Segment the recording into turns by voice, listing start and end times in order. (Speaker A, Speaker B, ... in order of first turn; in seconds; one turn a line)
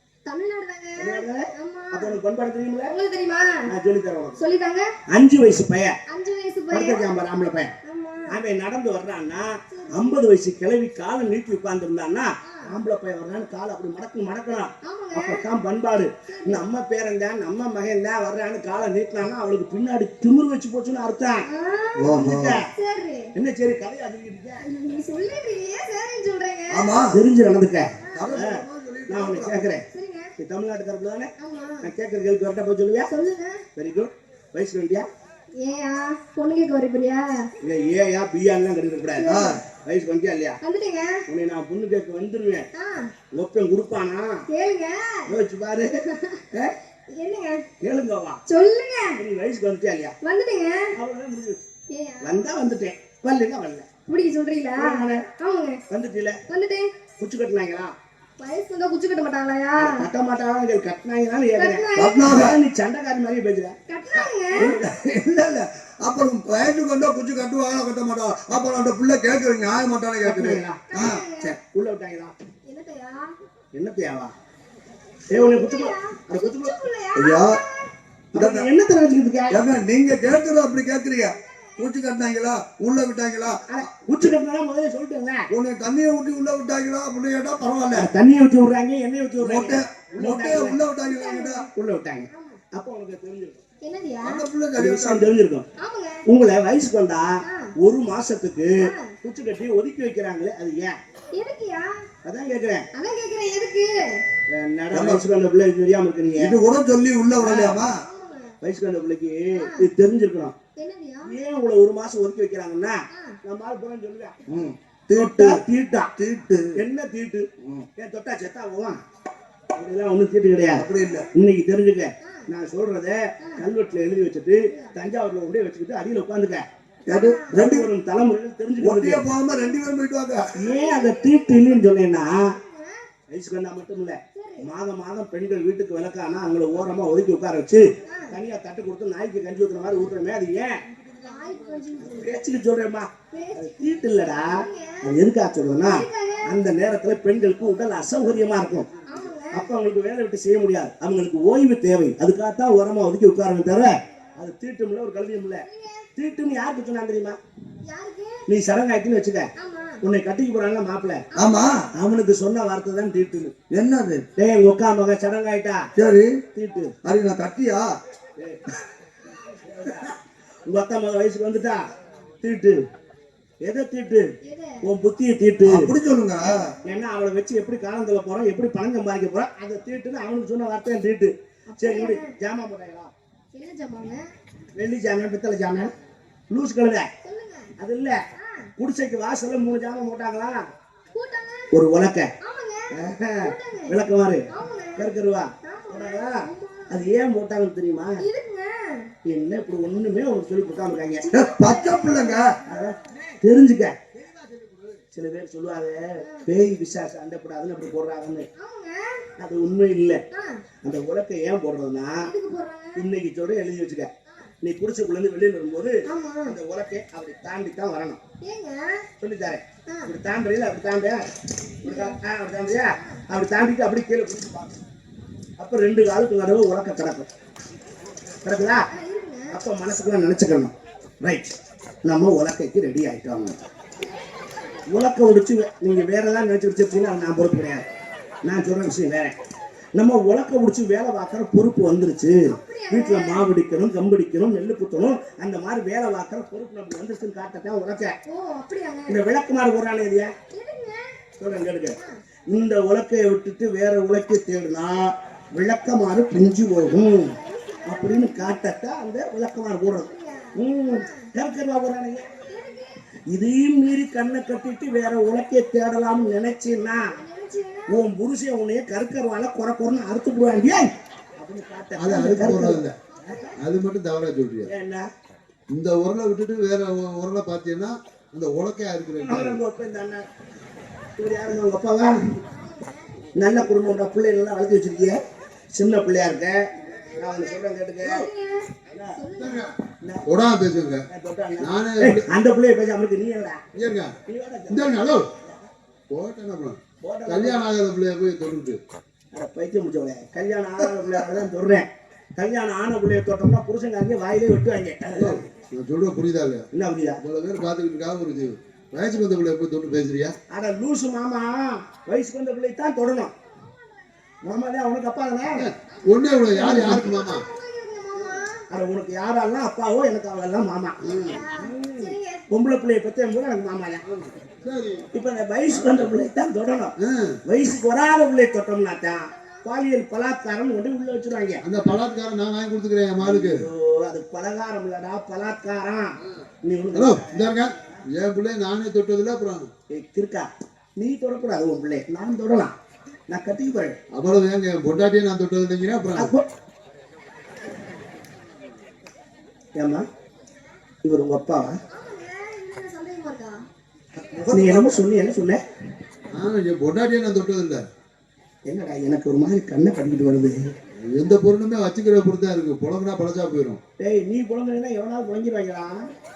Speaker A: 0.3-2.1
Speaker B: 1.0-2.9
Speaker A: 2.9-3.6
Speaker B: 3.7-4.4
Speaker A: 4.4-4.9
Speaker B: 5.1-6.0
Speaker A: 6.1-7.0
Speaker B: 6.7-7.7
Speaker A: 7.8-8.3
Speaker B: 8.3-21.5
Speaker A: 9.7-10.2
Speaker A: 12.4-12.7
Speaker A: 14.8-15.4
Speaker A: 16.3-16.6
Speaker A: 21.5-22.1
Speaker C: 22.0-22.6
Speaker B: 22.1-22.6
Speaker A: 22.7-23.3
Speaker B: 23.4-24.6
Speaker A: 24.6-26.9
Speaker C: 26.7-27.2
Speaker B: 27.1-29.9
Speaker A: 28.0-28.4
Speaker C: 28.1-29.6
Speaker A: 29.9-30.3
Speaker B: 30.4-33.1
Speaker A: 31.4-31.9
Speaker A: 33.1-33.6
Speaker B: 33.8-35.1
Speaker A: 35.6-37.5
Speaker B: 37.6-40.6
Speaker A: 39.2-39.6
Speaker C: 39.3-39.6
Speaker A: 40.6-41.2
Speaker B: 41.3-42.7
Speaker A: 42.7-43.1
Speaker B: 43.3-44.4
Speaker A: 44.5-45.3
Speaker B: 45.3-46.0
Speaker A: 46.1-46.4
Speaker A: 47.1-47.6
Speaker B: 47.8-48.4
Speaker A: 48.5-49.2
Speaker B: 49.1-50.2
Speaker A: 50.2-50.9
Speaker B: 51.0-51.6
Speaker A: 51.9-52.5
Speaker B: 52.2-53.9
Speaker A: 54.1-55.8
Speaker B: 54.8-55.3
Speaker B: 55.9-56.4
Speaker A: 56.5-56.9
Speaker B: 57.2-57.9
Speaker A: 58.4-60.1
Speaker B: 59.8-63.8
Speaker A: 61.6-62.4
Speaker C: 62.0-62.6
Speaker A: 63.9-64.7
Speaker C: 64.1-71.2
Speaker B: 64.6-64.8
Speaker B: 70.2-70.8
Speaker A: 70.9-71.5
Speaker B: 71.4-72.3
Speaker A: 72.7-73.4
Speaker B: 73.8-74.3
Speaker B: 75.3-76.7
Speaker A: 75.3-77.9
Speaker C: 77.2-77.6
Speaker B: 78.3-79.6
Speaker C: 78.4-78.7
Speaker C: 79.5-83.7
Speaker A: 81.2-81.8
Speaker B: 83.7-85.5
Speaker C: 85.5-88.1
Speaker B: 87.9-90.8
Speaker C: 89.4-91.7
Speaker A: 91.1-91.6
Speaker B: 91.6-93.6
Speaker A: 92.3-92.6
Speaker A: 93.8-94.4
Speaker C: 94.2-95.3
Speaker B: 94.8-95.7
Speaker A: 95.8-96.2
Speaker B: 96.3-101.0
Speaker A: 97.4-97.7
Speaker A: 98.8-99.1
Speaker A: 101.3-102.1
Speaker B: 102.2-102.9
Speaker A: 103.0-104.2
Speaker B: 104.5-106.5
Speaker C: 104.9-105.2
Speaker C: 106.4-108.0
Speaker B: 107.4-107.8
Speaker A: 107.8-108.6
Speaker B: 108.6-110.5
Speaker A: 109.6-109.8
Speaker A: 110.8-111.3
Speaker B: 111.2-114.4
Speaker A: 113.1-113.4
Speaker C: 114.5-115.6
Speaker B: 115.2-116.1
Speaker C: 116.2-116.8
Speaker B: 116.8-119.0
Speaker B: 119.8-126.7
Speaker C: 120.8-121.3
Speaker A: 124.6-124.9
Speaker C: 127.1-127.9
Speaker A: 127.1-127.5
Speaker B: 127.5-129.2
Speaker C: 128.8-130.5
Speaker B: 130.6-132.5
Speaker A: 130.6-133.1
Speaker B: 133.3-140.8
Speaker A: 134.3-134.6
Speaker A: 138.0-138.4
Speaker A: 141.0-142.3
Speaker B: 142.0-148.9
Speaker A: 143.3-145.1
Speaker A: 145.8-146.6
Speaker A: 149.1-149.7
Speaker B: 149.5-155.7
Speaker A: 155.6-156.1
Speaker B: 156.2-157.4
Speaker A: 157.9-158.5
Speaker B: 158.5-159.5
Speaker A: 159.6-160.0
Speaker B: 160.0-161.2
Speaker A: 161.3-161.8
Speaker C: 161.4-161.8
Speaker B: 161.9-163.5
Speaker C: 163.7-164.2
Speaker B: 164.4-165.9
Speaker C: 166.0-166.4
Speaker B: 166.5-166.9
Speaker C: 167.0-167.9
Speaker B: 168.4-168.7
Speaker B: 169.3-171.8
Speaker B: 172.4-172.8
Speaker B: 173.6-174.3
Speaker A: 174.4-174.8
Speaker B: 174.8-175.9
Speaker C: 175.6-176.7
Speaker A: 176.6-176.9
Speaker B: 176.8-183.1
Speaker A: 181.7-182.3
Speaker A: 183.5-184.3
Speaker B: 184.8-185.9
Speaker B: 186.5-187.1
Speaker A: 187.2-187.7
Speaker B: 187.8-188.2
Speaker A: 188.4-188.7
Speaker B: 188.8-190.6
Speaker A: 191.2-191.7
Speaker B: 191.7-192.3
Speaker A: 192.4-193.9
Speaker B: 192.9-198.2
Speaker A: 194.5-195.1
Speaker A: 195.6-197.1
Speaker A: 198.2-199.1
Speaker B: 199.2-201.3
Speaker A: 201.2-202.9
Speaker C: 201.3-202.6
Speaker B: 202.7-204.0
Speaker B: 205.1-208.5
Speaker A: 206.2-206.5
Speaker A: 208.6-209.3
Speaker B: 209.4-210.2
Speaker A: 210.3-210.6
Speaker B: 210.8-212.3
Speaker A: 212.2-213.0
Speaker B: 213.0-214.1
Speaker B: 214.6-218.2
Speaker A: 216.1-216.6
Speaker A: 218.4-219.1
Speaker B: 219.2-221.3
Speaker B: 221.8-224.8
Speaker A: 221.8-222.2
Speaker A: 223.0-223.2
Speaker B: 225.6-227.3
Speaker B: 228.4-228.9
Speaker A: 228.8-229.5
Speaker B: 229.5-230.7
Speaker B: 231.2-231.5
Speaker B: 232.1-233.6
Speaker B: 234.9-237.8
Speaker B: 238.4-239.3
Speaker B: 240.0-248.2
Speaker A: 242.5-243.5
Speaker A: 248.3-249.2
Speaker B: 249.1-250.3
Speaker A: 250.5-251.2
Speaker B: 251.4-252.0
Speaker B: 252.5-257.4
Speaker A: 256.9-258.6
Speaker B: 257.9-262.3
Speaker A: 259.9-261.3
Speaker A: 262.5-263.0
Speaker B: 263.3-267.1
Speaker A: 267.1-268.0
Speaker B: 267.9-273.4
Speaker D: 272.0-273.0
Speaker A: 273.1-273.6
Speaker D: 273.6-274.7
Speaker B: 274.7-275.1
Speaker D: 275.7-279.6
Speaker B: 279.2-280.2
Speaker B: 281.2-282.2
Speaker A: 282.4-283.3
Speaker B: 283.4-285.2
Speaker B: 285.7-288.3
Speaker A: 286.8-289.7
Speaker B: 288.9-289.2
Speaker D: 289.4-289.7
Speaker D: 290.3-291.0
Speaker B: 291.1-293.6
Speaker D: 291.6-292.3
Speaker D: 293.8-294.1
Speaker B: 294.3-295.6
Speaker D: 294.7-295.3
Speaker D: 296.1-298.8
Speaker B: 297.0-297.6
Speaker B: 299.3-305.4
Speaker D: 305.2-306.7
Speaker B: 306.7-307.2
Speaker D: 307.2-310.4
Speaker B: 310.5-313.3
Speaker A: 313.6-314.1
Speaker B: 314.4-315.7
Speaker D: 315.6-317.4
Speaker A: 315.9-318.6
Speaker B: 318.7-324.0
Speaker D: 321.0-321.4
Speaker A: 321.1-322.4
Speaker D: 324.1-325.1
Speaker B: 325.1-326.9
Speaker D: 327.0-327.4
Speaker B: 327.5-331.6
Speaker A: 329.3-329.6
Speaker D: 331.6-333.7
Speaker B: 333.2-336.1
Speaker B: 336.6-338.0
Speaker D: 336.9-339.7
Speaker B: 339.9-342.7
Speaker B: 343.3-344.0
Speaker D: 344.1-346.3
Speaker B: 346.2-346.5
Speaker B: 349.8-350.1
Speaker B: 351.0-351.8
Speaker A: 351.9-353.6
Speaker C: 354.1-355.1
Speaker B: 354.5-355.6
Speaker D: 356.3-357.8
Speaker B: 358.7-360.7
Speaker D: 361.0-363.8
Speaker B: 364.0-366.1